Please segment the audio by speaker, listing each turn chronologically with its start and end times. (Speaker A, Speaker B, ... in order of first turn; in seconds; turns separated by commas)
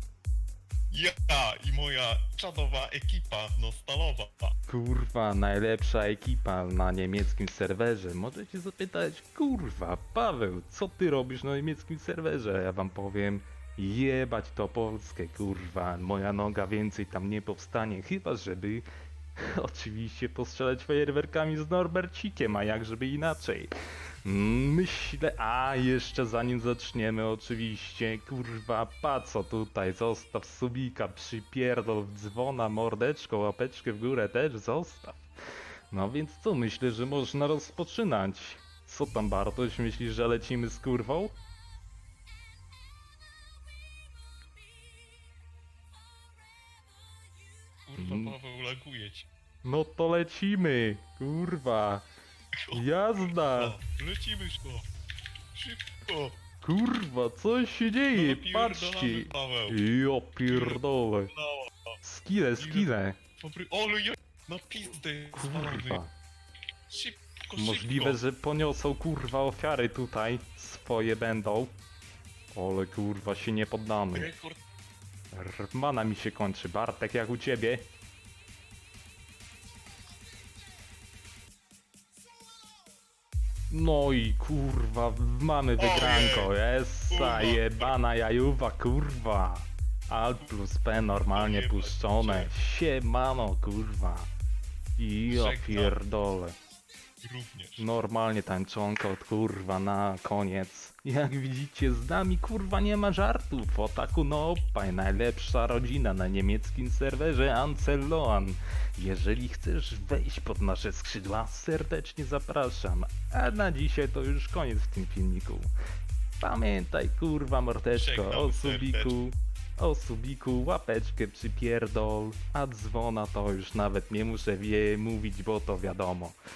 Speaker A: 0.9-4.5, Speaker B: 4.7-18.9, Speaker B: 19.4-23.7, Speaker B: 24.2-35.3, Speaker B: 35.9-41.4, Speaker A: 47.9-49.3, Speaker B: 48.0-48.4, Speaker B: 49.6-52.0, Speaker A: 52.5-54.9, Speaker B: 52.7-53.8, Speaker A: 55.5-56.4, Speaker B: 56.6-61.3, Speaker A: 58.1-59.8, Speaker A: 60.5-62.0, Speaker B: 62.0-63.2, Speaker A: 62.6-66.0, Speaker B: 65.3-66.1, Speaker A: 66.9-68.2, Speaker B: 67.6-71.7, Speaker B: 72.5-74.3, Speaker A: 74.1-74.6, Speaker B: 75.3-77.9, Speaker B: 83.7-94.3, Speaker A: 85.8-86.5, Speaker A: 87.1-88.0, Speaker A: 91.3-92.5, Speaker B: 95.0-96.6, Speaker A: 95.3-96.0, Speaker A: 97.2-97.9, Speaker B: 97.8-115.7, Speaker B: 116.4-126.4, Speaker A: 118.0-119.2